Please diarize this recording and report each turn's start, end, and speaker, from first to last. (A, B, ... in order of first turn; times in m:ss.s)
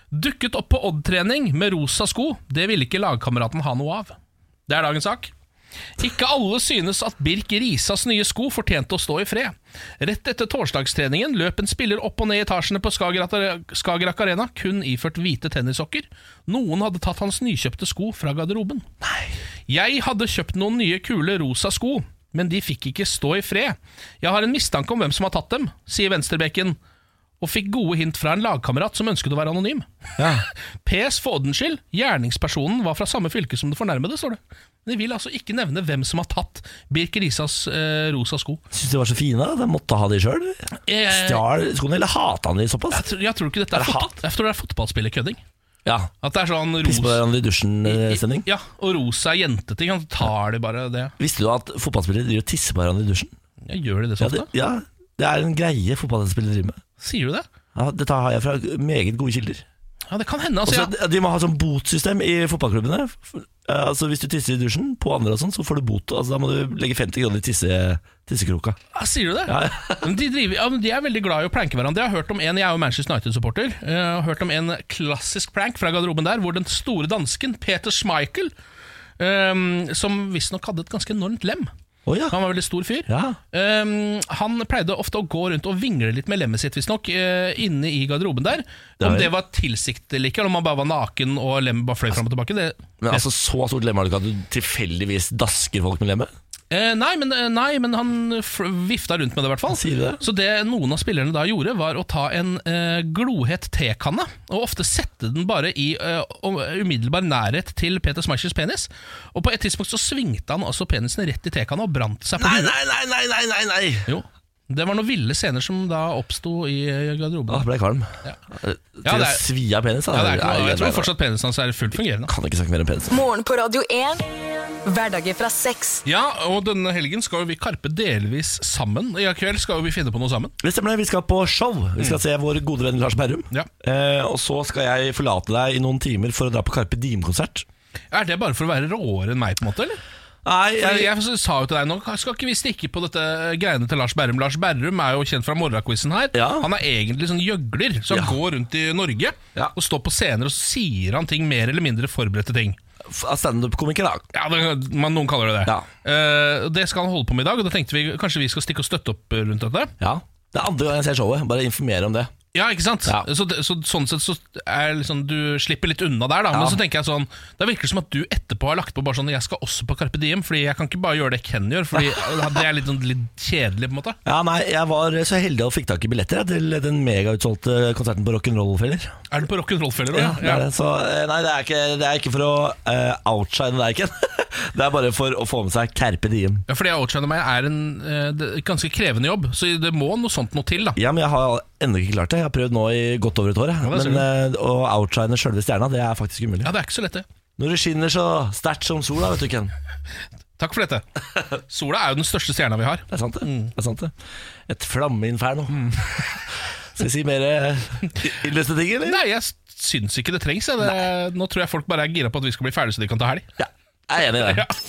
0:00.1-0:04.2 A
0:04.7-0:05.3 A
0:06.0-0:18.9 A
0:19.0-0:19.3 B
0:19.7-0:26.8 A
0:27.4-0:38.6 A
0:30.2-0:30.5 B
0:38.7-0:43.1 B
0:40.9-0:41.4 A
0:42.9-0:45.4 A
0:43.7-0:44.2 B
0:45.8-0:46.1 B
0:46.2-0:47.2 A
0:46.8-0:48.5 B
0:47.9-0:51.1 A
0:51.2-0:53.3 B
0:53.6-0:54.5 A
0:54.2-0:56.8 B
0:57.0-0:57.5 A
0:57.8-0:59.6 B
1:00.1-1:00.9 A
1:00.6-1:08.8 B
1:08.9-1:18.5 A
1:09.5-1:10.2 B
1:19.2-1:21.7 A
1:22.1-1:22.4 B
1:22.3-1:33.3 A
1:23.1-1:23.4 B
1:29.0-1:29.3 B
1:33.0-1:36.3 B
1:36.7-1:52.8 A
1:39.7-1:40.2 B
1:52.4-1:54.1 B
1:54.1-1:57.6 A
1:57.5-2:01.1 B
1:59.0-1:59.4 A
2:00.1-2:02.3 A
2:02.2-2:03.2 B
2:03.1-2:04.2 C
2:04.8-2:06.0 C
2:06.0-2:10.5 A
2:10.6-2:17.7 B
2:18.1-2:20.0 A
2:20.4-2:21.1 B
2:20.8-2:32.8 A
2:26.3-2:26.7 B
2:28.1-2:28.4 B
2:33.0-2:34.3 B
2:34.3-2:39.9 A
2:40.0-2:42.3 B
2:42.5-2:54.2 A
2:46.5-2:46.8 B
2:54.2-2:59.2 B
2:59.3-3:00.6 A
3:00.1-3:06.6 B
3:06.7-3:11.0 A
3:11.0-3:16.7 B
3:13.8-3:14.3 A
3:16.6-3:17.2 A
3:17.6-3:19.7 B
3:20.6-3:21.0 A
3:21.6-3:23.7 A
3:23.1-3:24.1 B
3:24.7-3:26.4 B
3:27.0-3:29.2 B
3:29.0-3:33.5 A
3:33.6-3:34.7 B